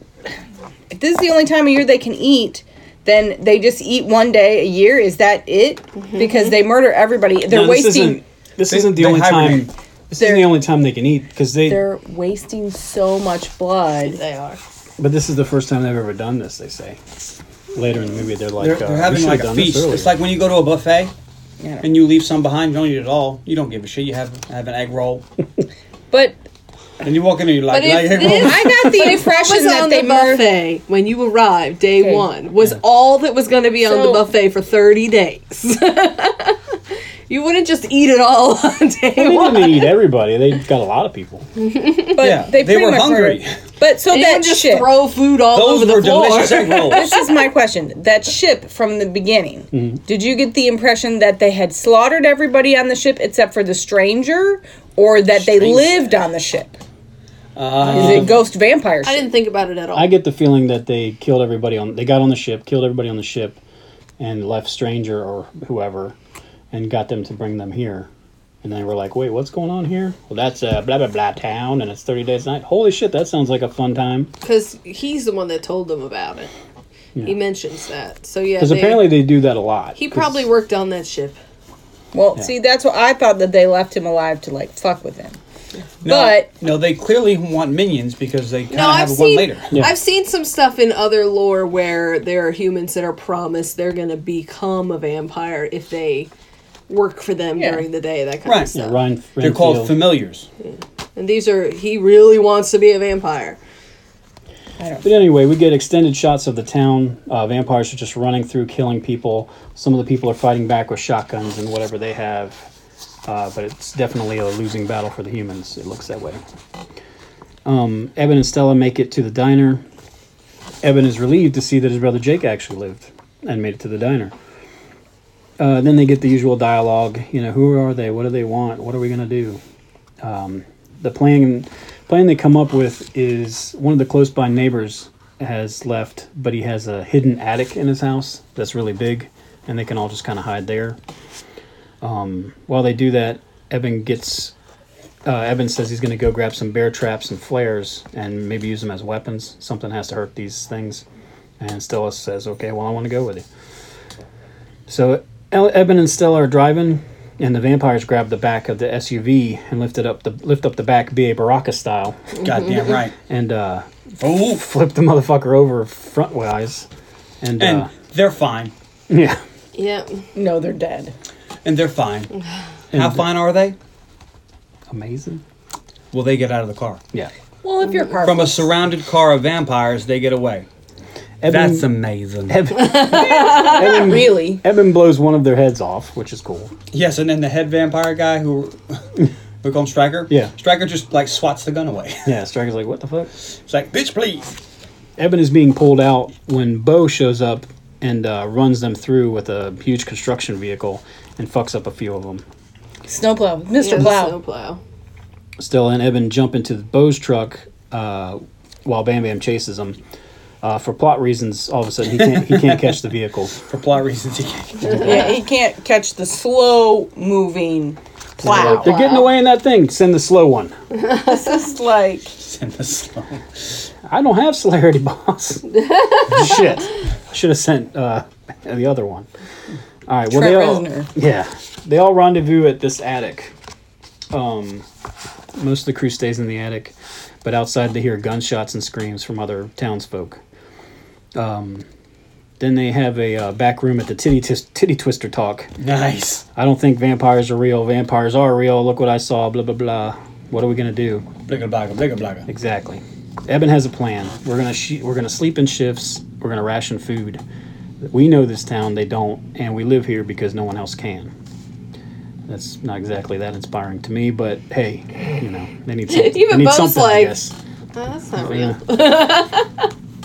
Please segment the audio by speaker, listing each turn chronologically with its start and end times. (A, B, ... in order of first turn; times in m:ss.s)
0:00.9-0:08.2 A
0:06.0-0:06.6 B
0:07.5-0:11.8 C
0:08.7-0:09.7 D
0:10.2-0:10.6 A
0:11.7-0:14.2 A
0:14.0-0:14.6 B
0:15.0-0:17.0 C
0:17.8-0:20.1 C
0:18.6-0:21.1 D
0:21.6-0:21.9 A
0:21.8-0:25.2 D
0:26.1-0:26.4 A
0:27.0-0:28.8 D
0:27.7-0:36.6 B
0:28.1-0:30.5 A
0:32.0-0:32.3 A
0:33.8-0:34.3 A
0:37.3-0:39.9 B
0:39.2-0:41.5 C
0:41.6-0:42.3 B
0:42.2-0:45.0 A
0:42.2-0:43.6 D
0:44.1-0:47.4 B
0:45.5-0:47.1 D
0:46.9-0:56.8 A
0:49.7-0:50.0 C
0:55.4-0:56.1 D
0:57.6-0:58.4 D
0:57.9-0:58.3 C
0:57.9-0:59.3 A
0:59.0-1:00.1 B
0:59.9-1:03.6 C
1:04.2-1:06.2 C
1:06.7-1:08.1 C
1:08.6-1:14.3 C
1:14.4-1:16.5 B
1:17.2-1:19.2 B
1:18.6-1:20.4 C
1:20.0-1:21.4 B
1:22.1-1:25.4 A
1:26.0-1:29.7 D
1:26.0-1:26.5 A
1:28.7-1:36.3 B
1:36.9-1:39.0 B
1:37.6-1:37.9 A
1:38.4-1:38.8 D
1:38.7-1:40.1 C
1:39.4-1:40.5 D
1:40.6-1:43.6 B
1:44.8-1:45.1 A
1:45.0-1:52.7 C
1:53.3-1:56.4 C
1:57.6-1:59.8 C
2:00.8-2:04.3 C
2:05.6-2:09.6 C
2:10.2-2:21.0 C
2:22.0-2:24.5 C
2:25.2-2:31.0 C
2:31.6-2:33.4 C
2:34.9-2:42.3 C
2:42.4-2:43.2 D
2:43.3-2:46.9 C
2:44.2-2:44.6 D
2:47.4-2:47.9 C
2:47.6-2:48.7 D
2:49.1-2:49.4 C
2:49.8-2:50.2 B
2:50.4-2:51.1 A
2:51.6-2:52.3 D
2:52.9-2:53.3 C
2:52.9-2:53.8 D
2:54.9-2:55.4 C
2:56.1-2:57.0 D
2:57.6-2:58.6 A
2:58.2-3:00.7 D
3:01.4-3:01.9 C
3:01.5-3:02.6 D
3:02.5-3:06.7 C
3:03.0-3:03.8 B
3:03.1-3:04.6 A
3:06.9-3:12.3 D
3:12.3-3:13.3 C
3:13.7-3:14.6 D
3:15.2-3:22.4 C
3:23.1-3:24.4 A
3:23.8-3:24.8 B
3:25.6-3:30.0 C
3:30.6-3:33.6 C
3:32.2-3:32.8 D
3:33.6-3:35.3 D
3:34.9-3:35.2 C
3:34.9-3:39.2 A
3:38.4-3:40.7 C
3:38.5-3:39.3 B
3:41.2-3:42.3 A
3:42.4-3:43.4 D
3:44.1-3:45.7 C
3:45.8-3:46.7 B
3:46.3-3:49.3 C
3:50.1-3:53.5 C
3:50.3-3:51.1 A
3:54.3-3:54.9 C
3:55.6-4:00.4 C
4:01.4-4:01.9 C
4:02.6-4:05.7 C
4:05.8-4:06.4 D
4:06.6-4:11.3 C
4:11.5-4:12.5 D
4:12.5-4:17.4 C
4:18.0-4:21.3 C
4:22.5-4:27.5 C
4:26.1-4:27.4 B
4:28.0-4:29.9 B
4:28.4-4:28.8 C